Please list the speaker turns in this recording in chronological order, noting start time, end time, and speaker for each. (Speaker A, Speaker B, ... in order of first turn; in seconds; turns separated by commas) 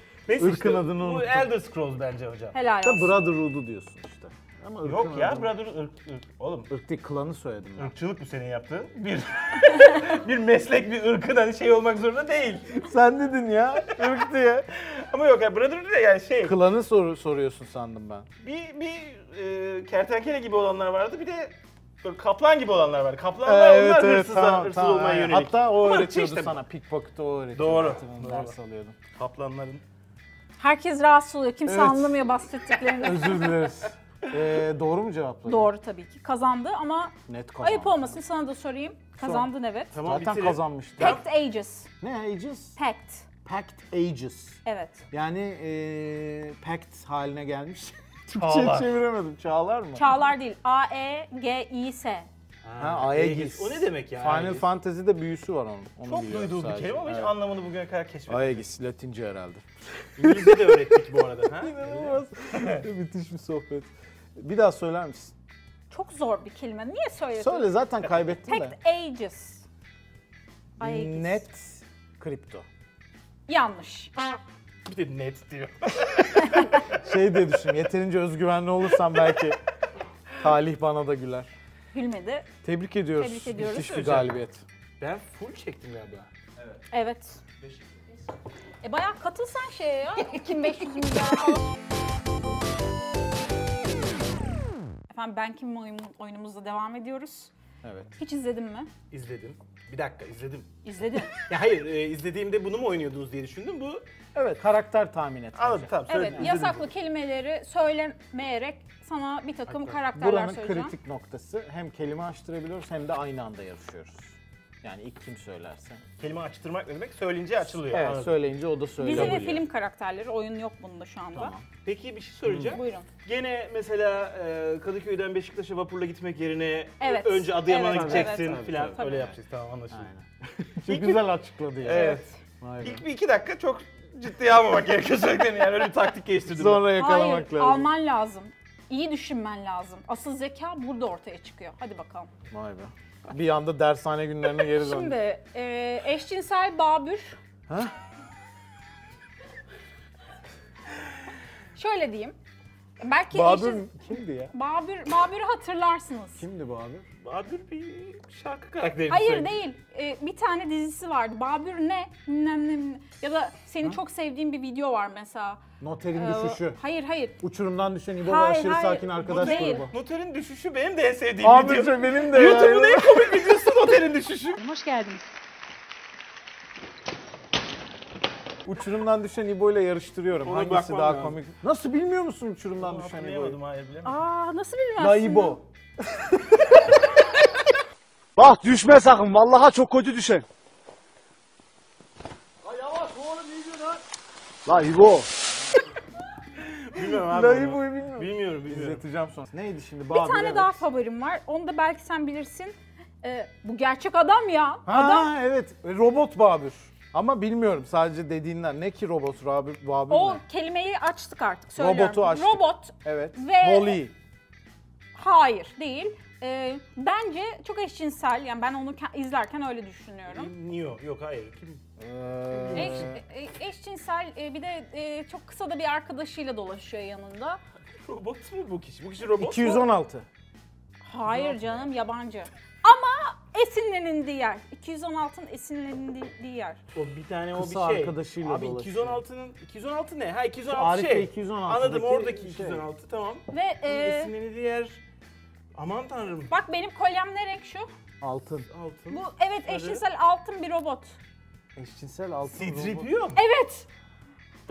Speaker A: 0.3-2.5, Speaker B: 0.4-1.5, Speaker C: 2.5-3.2, Speaker B: 2.8-5.5, Speaker A: 4.8-6.7, Speaker B: 6.7-7.9, Speaker A: 7.8-12.8, Speaker B: 12.8-14.7, Speaker A: 14.7-16.6, Speaker B: 16.4-18.3, Speaker A: 18.4-26.6, Speaker B: 23.4-28.9, Speaker A: 27.5-28.5, Speaker A: 29.1-29.8, Speaker C: 30.6-33.5, Speaker B: 31.6-32.2, Speaker B: 32.8-35.7, Speaker C: 35.5-39.9, Speaker B: 37.3-38.2, Speaker B: 39.2-41.2, Speaker A: 39.9-41.2, Speaker C: 41.0-41.9, Speaker B: 42.0-42.8, Speaker C: 42.8-43.3, Speaker B: 43.4-44.6, Speaker C: 44.6-45.0, Speaker B: 45.1-50.1, Speaker A: 48.3-49.0, Speaker C: 49.9-52.3, Speaker A: 52.6-54.7, Speaker B: 52.8-57.4, Speaker A: 56.0-58.6, Speaker B: 58.3-61.0, Speaker A: 60.2-62.8, Speaker B: 61.6-65.3, Speaker C: 65.9-67.8, Speaker B: 67.4-68.8, Speaker C: 68.4-69.6, Speaker C: 70.8-71.4, Speaker B: 70.8-72.7, Speaker C: 73.5-74.1, Speaker A: 74.8-76.9, Speaker B: 76.9-79.6, Speaker B: 80.4-81.5, Speaker C: 81.9-82.5, Speaker B: 82.6-84.6, Speaker C: 83.2-84.0, Speaker A: 83.6-84.3, Speaker A: 85.0-86.3, Speaker C: 86.9-87.4, Speaker C: 88.8-91.7, Speaker C: 95.1-97.5, Speaker B: 97.8-98.1, Speaker C: 98.2-98.9, Speaker A: 99.1-100.7, Speaker C: 100.8-101.3, Speaker A: 101.3-104.0, Speaker B: 104.3-106.5, Speaker A: 105.5-106.9, Speaker C: 106.1-110.9, Speaker B: 109.8-116.0, Speaker A: 116.2-118.4, Speaker B: 117.9-119.6, Speaker C: 119.0-121.5, Speaker A: 119.1-119.5, Speaker B: 121.3-121.7, Speaker A: 121.8-130.1, Speaker B: 122.5-122.8, Speaker C: 122.6-123.1, Speaker C: 127.0-129.3, Speaker B: 127.7-129.3, Speaker B: 129.9-133.0, Speaker A: 130.8-131.2, Speaker A: 131.8-132.3, Speaker C: 131.9-132.3, Speaker A: 132.8-136.8, Speaker B: 136.5-137.9, Speaker C: 136.9-142.3, Speaker B: 142.5-145.2, Speaker C: 144.7-147.4, Speaker C: 151.7-152.3, Speaker C: 153.0-153.9, Speaker B: 153.3-154.5, Speaker C: 154.5-156.4, Speaker B: 156.4-157.1, Speaker A: 157.2-159.5, Speaker C: 159.1-165.6, Speaker B: 165.8-166.8, Speaker C: 166.1-167.4, Speaker B: 167.4-169.9, Speaker C: 168.2-169.9, Speaker A: 169.2-174.6, Speaker B: 171.4-173.5, Speaker C: 174.6-175.2, Speaker B: 178.6-183.6, Speaker A: 180.4-181.4, Speaker A: 182.8-184.2, Speaker C: 184.0-185.6, Speaker B: 185.0-187.0, Speaker B: 188.4-190.4, Speaker D: 188.4-190.4, Speaker B: 193.0-193.8, Speaker D: 194.9-195.2, Speaker A: 196.6-199.0, Speaker B: 197.1-200.8, Speaker C: 200.1-205.3, Speaker B: 204.8-210.4, Speaker C: 210.1-214.0, Speaker B: 211.8-214.1, Speaker C: 215.1-220.5, Speaker A: 220.3-221.8, Speaker B: 222.0-223.2, Speaker A: 222.7-223.1, Speaker C: 222.7-227.6, Speaker A: 228.0-229.9, Speaker B: 229.4-230.3, Speaker C: 231.0-236.8, Speaker A: 231.3-231.9, Speaker A: 236.9-245.0, Speaker B: 237.5-239.2, Speaker B: 240.7-242.8, Speaker C: 243.5-244.3, Speaker A: 245.7-246.5, Speaker C: 246.5-247.9, Speaker B: 248.2-248.7, Speaker A: 248.7-250.0, Speaker C: 249.1-251.2, Speaker B: 251.8-253.1, Speaker A: 252.5-253.4, Speaker C: 253.3-253.9